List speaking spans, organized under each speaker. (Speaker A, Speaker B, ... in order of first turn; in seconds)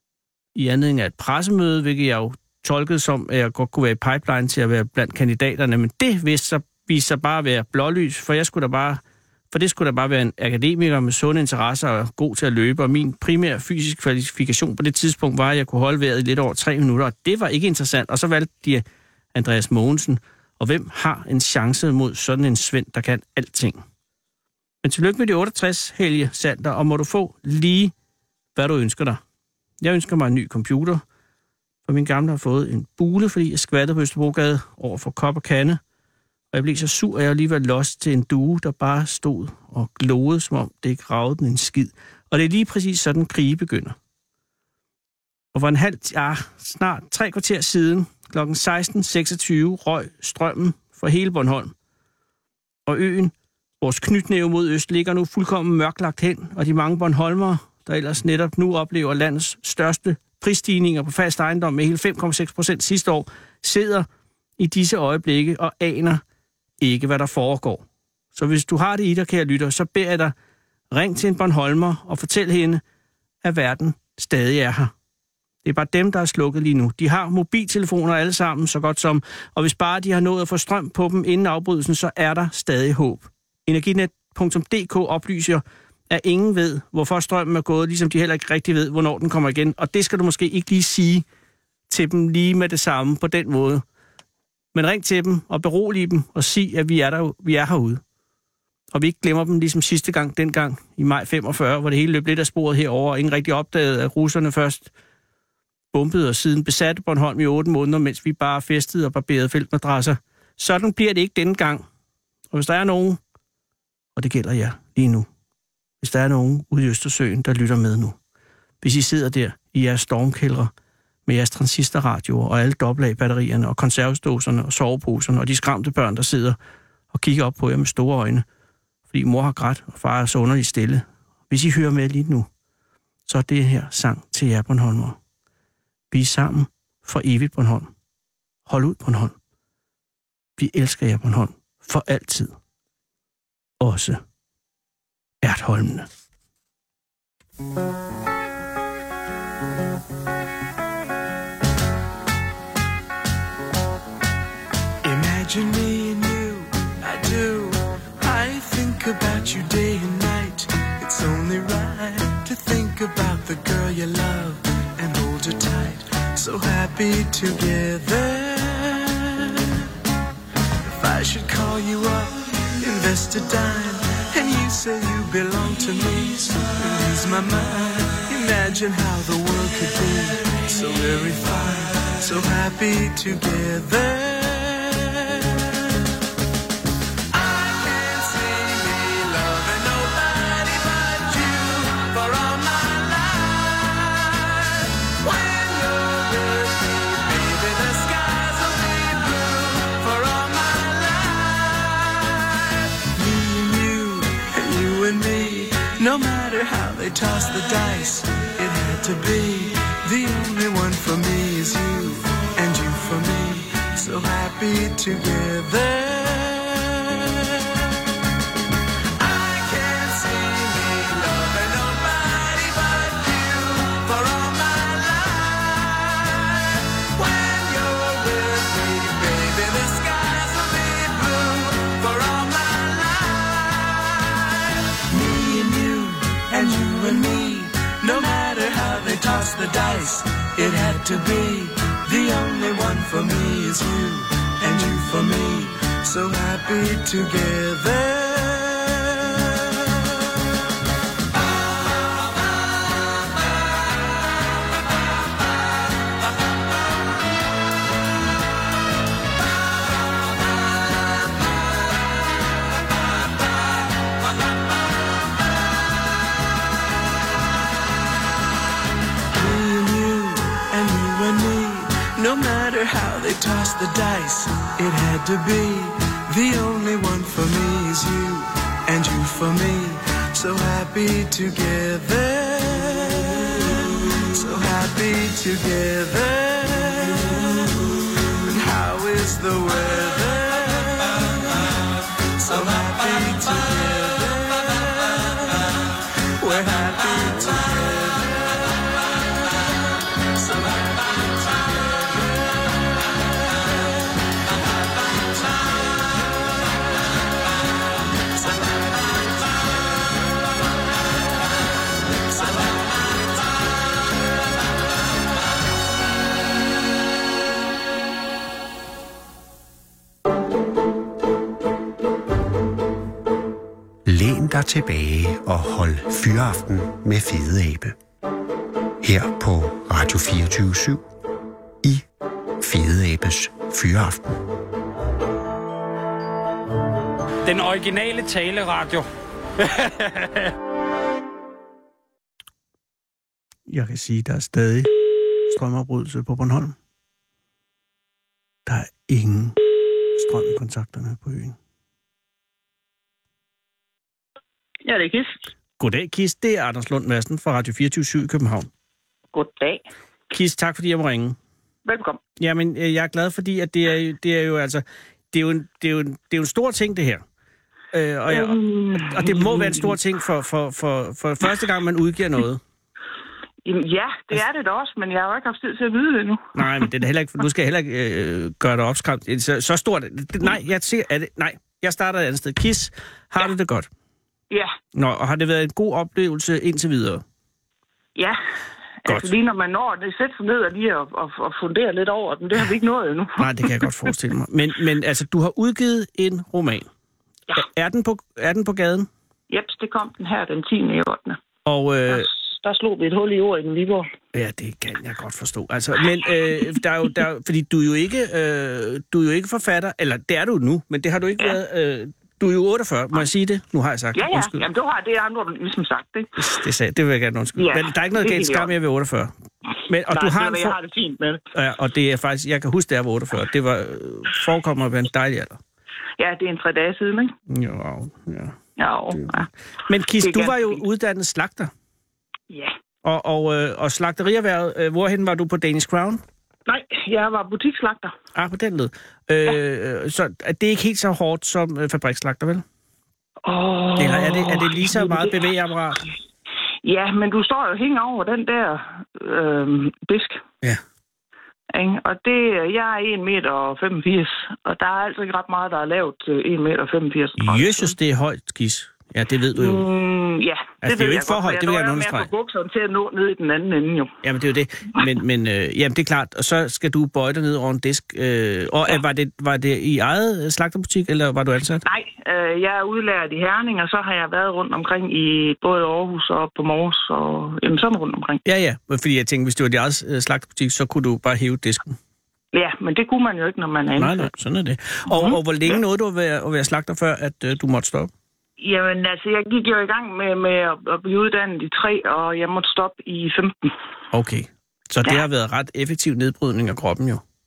Speaker A: 0.6-9.0, 9.5-23.8, 24.8-27.9, 28.6-29.2, 29.8-31.0, 31.9-35.8, 36.5-44.0, 45.5-51.7, 52.9-64.1, 64.6-66.2, 66.8-70.3, 70.9-72.8, 73.4-74.9, 75.6-91.2, 91.9-93.8, 94.7-98.0, 98.9-104.9, 105.9-111.8, 112.5-113.2, 114.2-115.3, 116.0-118.2, 118.8-120.7, 121.3-126.6, 127.1-128.4, 129.1-132.5, 133.3-135.2, 136.1-137.9, 138.7-139.3, 140.6-142.5, 143.8-144.2, 145.4-146.1, 343.7-344.9, 345.5-346.8, 348.7-349.6, 350.1-351.6, 355.8-358.7, 360.3-361.4, 362.4-367.2, 367.9-372.6, 376.6-383.9, 384.9-387.2, 393.4-396.9, 397.6-399.1, 401.6-402.3, 404.3-414.6, 416.4-419.3, 419.9-420.8, 421.5-425.6, 427.5-428.6, 429.9-431.7, 433.0-436.2, 438.4-442.6, 444.0-446.0, 457.4-459.9, 460.8-462.3, 464.2-471.8, 478.5-481.9, 484.0-488.1, 494.1-497.2
Speaker B: 155.0-169.9, 170.8-185.9, 187.3-217.8, 219.2-249.9, 269.3-291.8, 292.3-299.1, 300.2-302.8, 303.6-303.9, 308.3-309.5, 312.4-312.9
Speaker C: 324.1-328.0, 329.0-331.0, 332.6-334.4
Speaker D: 337.4-339.1, 339.6-340.5
Speaker E: 354.8-355.4, 359.3-359.9, 361.9-362.2, 368.3-370.0, 373.6-376.8, 384.5-384.8, 389.1-393.5, 399.5-401.4, 402.1-404.1, 414.1-416.5, 417.6-418.7, 420.1-421.4, 426.2-427.3, 428.8-429.5, 430.2-430.8, 432.5-432.8, 436.7-438.1, 443.4-445.5, 446.8-450.4, 451.7-457.9, 459.5-464.1, 471.9-478.4, 482.5-484.3, 485.1-485.8, 488.6-493.7